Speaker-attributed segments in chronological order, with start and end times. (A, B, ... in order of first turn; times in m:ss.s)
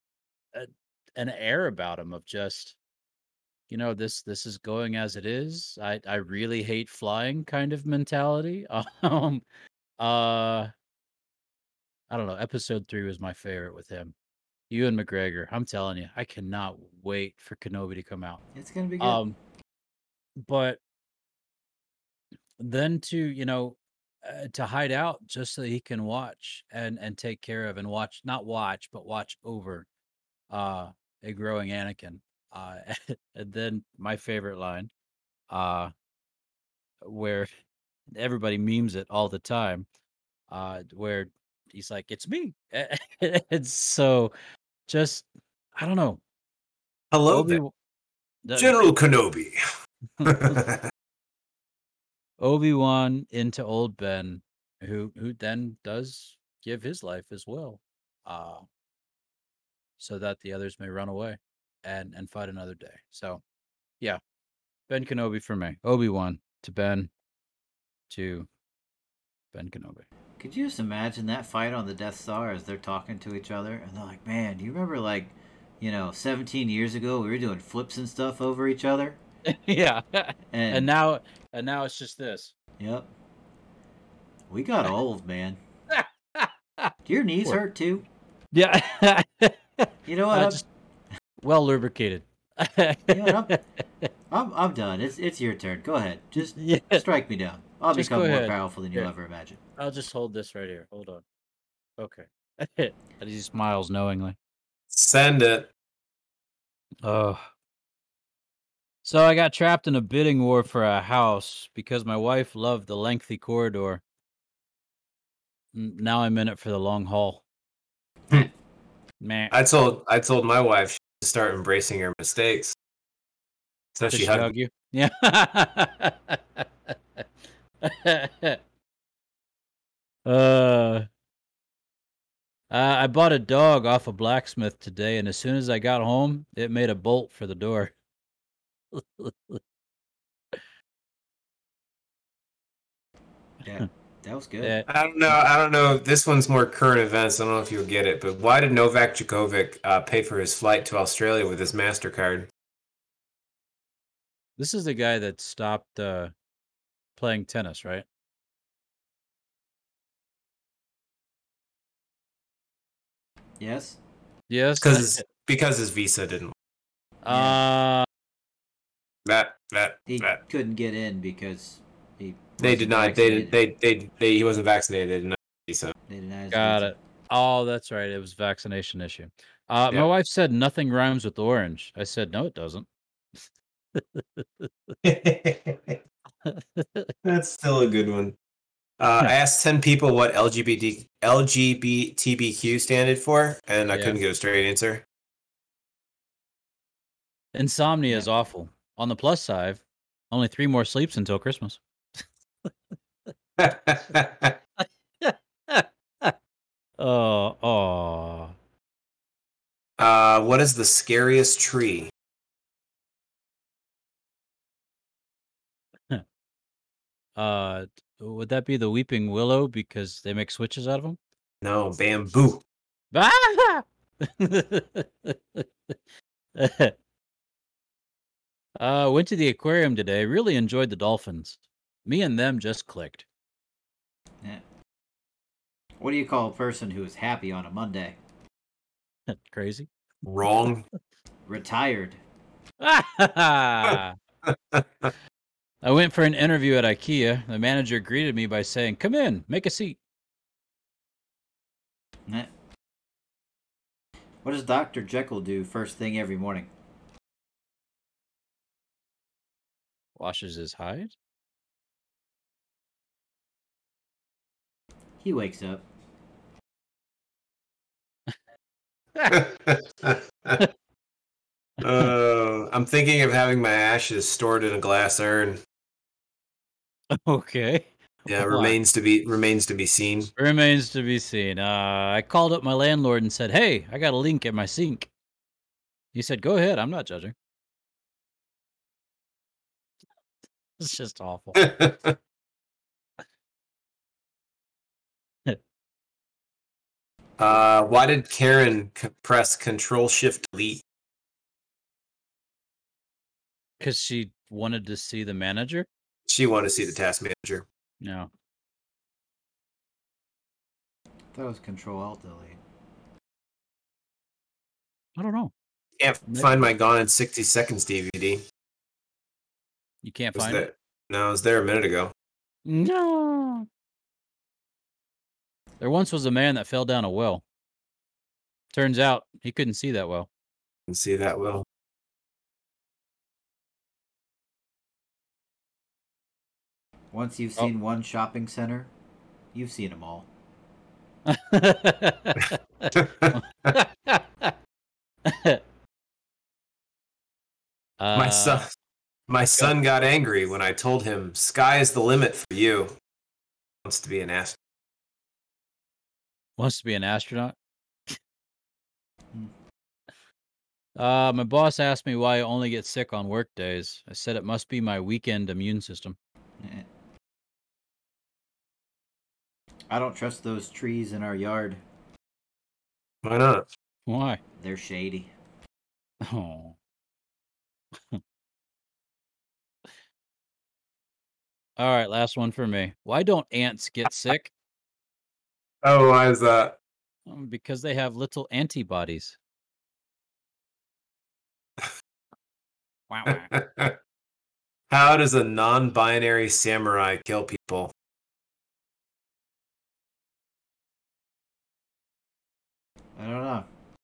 0:00.5-0:02.8 A
0:03.7-0:09.4 A
0:10.0-0:10.7 A
0:12.1-0:14.1 A
0:14.7-0:18.4 A
0:18.5-0:19.2 B
0:19.0-0:19.4 A
0:20.4-0:20.8 A
0:22.6-0:29.9 A
0:30.5-0:34.9 A
0:35.5-0:35.9 A
0:37.0-0:37.5 A
0:38.1-0:39.8 A
0:40.5-0:44.3 A
0:44.9-0:46.2 A
0:47.1-0:47.6 C
0:47.3-0:47.7 A
0:48.4-0:48.7 A
0:48.6-0:49.6 C
0:50.2-0:50.6 A
0:50.2-0:50.9 C
0:52.4-0:58.6 A
1:00.0-1:03.4 A
1:04.9-1:07.1 A
1:08.1-1:08.5 A
1:09.5-1:10.0 A
1:10.4-1:19.2 B
1:19.5-1:22.5 A
1:20.5-1:20.9 B
1:22.8-1:23.1 B
1:24.5-1:25.6 B
1:25.9-1:26.9 A
1:27.0-1:28.1 B
1:28.5-1:30.6 A
1:30.1-1:30.6 B
1:31.4-1:34.1 A
1:33.1-1:33.5 B
1:34.3-1:39.6 B
1:36.4-1:37.0 A
1:37.9-1:39.1 A
1:39.8-1:41.2 A
1:42.0-1:44.4 A
1:44.9-1:45.7 C
1:47.0-1:47.4 A
1:49.0-1:54.0 A
1:55.7-1:57.4 A
1:59.2-1:59.5 A
1:59.5-2:02.7 C
2:03.9-2:04.5 C
2:04.1-2:07.2 A
2:07.8-2:08.6 A
2:10.2-2:11.1 A
2:12.7-2:17.9 A
2:18.9-2:19.6 A
2:23.6-2:24.8 B
2:24.6-2:24.9 A
2:24.9-2:32.5 C
2:34.6-2:36.3 A
2:37.2-2:38.0 A
2:43.6-2:44.0 B
2:44.5-2:45.2 A
2:44.8-2:46.5 C
2:47.2-2:48.0 A
2:47.3-2:47.6 B
2:49.2-2:50.4 C
2:50.1-2:53.6 B
2:52.6-2:55.9 C
2:56.1-2:56.9 B
2:56.5-3:02.9 A
3:03.9-3:04.9 A
3:05.0-3:06.0 C
3:06.4-3:07.1 A
3:07.2-3:08.4 C
3:09.0-3:15.0 C
3:13.9-3:14.2 A
3:17.5-3:21.8 A
3:23.6-3:24.5 C
3:24.8-3:26.3 A
3:27.0-3:28.5 A
3:30.0-3:32.1 C
3:37.4-3:41.2 A
3:41.6-3:42.6 C
3:43.1-3:46.0 A
3:46.6-3:46.9 A
3:48.8-3:53.2 A
3:56.0-3:58.2 B
3:59.3-3:59.9 A
4:00.2-4:00.8 C
4:01.5-4:02.2 B
4:02.8-4:04.1 A
4:03.8-4:05.1 C
4:05.8-4:10.0 A
4:14.4-4:16.7 B
4:20.2-4:21.1 A
4:25.2-4:25.8 B
4:29.3-4:30.6 C
4:31.8-4:35.6 C
4:37.1-4:38.8 A
4:38.3-4:40.3 C
4:40.4-4:45.1 A
4:46.1-4:47.3 A
4:50.8-4:51.7 A
4:51.6-4:52.2 C
4:57.4-5:00.8 C
5:03.8-5:05.9 A
5:06.2-5:07.6 C
5:08.0-5:08.3 A
5:11.3-5:12.6 B
5:15.2-5:15.5 A
5:16.0-5:18.4 C
5:16.3-5:16.6 A
5:20.0-5:20.7 A
5:20.3-5:22.1 C
5:22.6-5:23.6 A
5:25.8-5:27.4 A
5:28.7-5:30.3 A
5:30.9-5:31.6 C
5:37.1-5:38.9 B
5:39.5-5:40.3 B
5:41.2-5:42.5 A
5:42.9-5:43.7 C
5:43.3-5:44.5 A
5:45.2-5:45.6 A
5:48.0-5:48.7 A
5:48.1-5:48.7 C
5:49.3-5:52.9 C
5:53.8-5:54.6 C
5:56.6-5:57.5 A
6:01.0-6:06.2 A
6:06.6-6:06.9 B
6:09.9-6:11.8 B
6:13.2-6:13.7 C
6:14.1-6:14.4 A
6:14.6-6:15.3 B
6:16.2-6:16.8 A
6:21.8-6:24.5 A
6:25.8-6:26.8 C
6:27.2-6:29.4 A
6:33.1-6:33.5 A
6:33.2-6:34.0 C
6:34.9-6:37.9 C
6:43.2-6:43.7 B